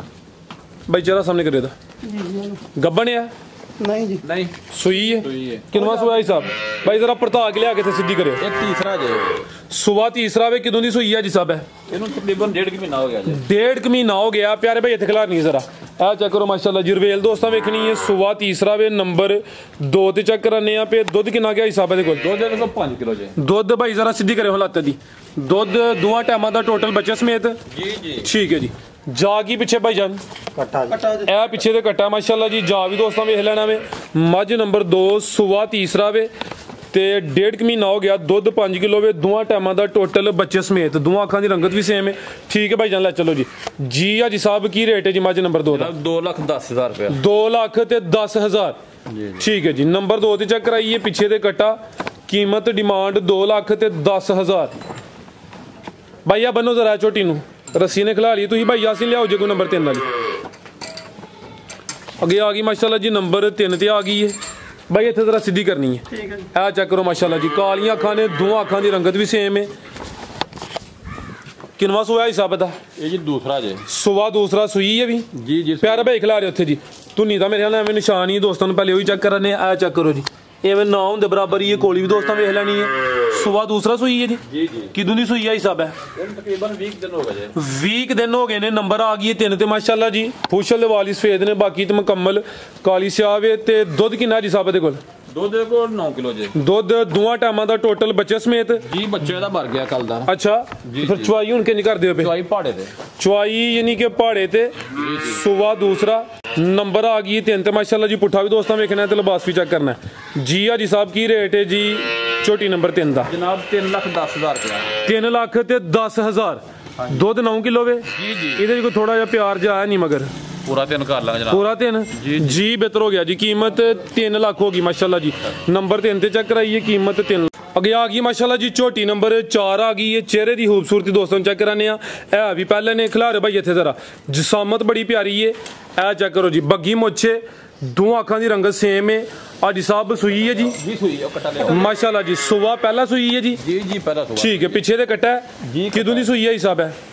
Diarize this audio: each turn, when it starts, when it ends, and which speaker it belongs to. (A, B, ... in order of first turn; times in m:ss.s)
0:00.9-0:01.7 A
0:02.0-0:02.6 B
0:02.7-0:03.3 A
0:03.8-0:04.2 B
0:04.2-0:04.5 C
0:04.7-0:08.4 A
0:05.2-0:05.7 C
0:05.7-0:06.5 B
0:08.4-0:09.4 C
0:09.7-0:11.7 A
0:11.9-0:13.4 C
0:13.2-0:22.2 A
0:22.2-0:23.4 C
0:23.4-0:27.6 A
0:27.7-0:28.3 C
0:28.2-0:30.2 A
0:30.7-0:31.3 B
0:31.2-0:36.3 A
0:36.9-0:45.9 A
0:45.7-0:47.2 C
0:47.1-0:48.8 A
0:49.1-0:49.4 C
0:49.4-0:54.7 A
0:56.2-1:00.0 A
1:02.2-1:04.4 A
1:04.9-1:09.7 A
1:06.1-1:06.5 B
1:11.8-1:12.8 A
1:13.0-1:13.8 C
1:13.9-1:15.3 A
1:15.3-1:16.1 C
1:15.8-1:26.0 A
1:24.5-1:24.9 C
1:26.1-1:27.5 C
1:27.5-1:35.0 A
1:35.3-1:36.6 C
1:36.5-1:38.9 A
1:38.8-1:40.3 C
1:40.2-1:42.3 A
1:40.8-1:41.3 C
1:42.2-1:42.9 C
1:43.2-1:53.3 A
1:44.9-1:45.4 C
1:53.2-1:54.9 C
1:55.0-2:00.3 A
1:57.0-1:57.2 C
1:58.1-1:58.6 C
2:00.6-2:02.6 C
2:01.5-2:20.8 A
2:20.7-2:21.9 C
2:21.6-2:23.6 A
2:23.6-2:24.8 C
2:24.3-2:27.0 A
2:25.6-2:26.3 C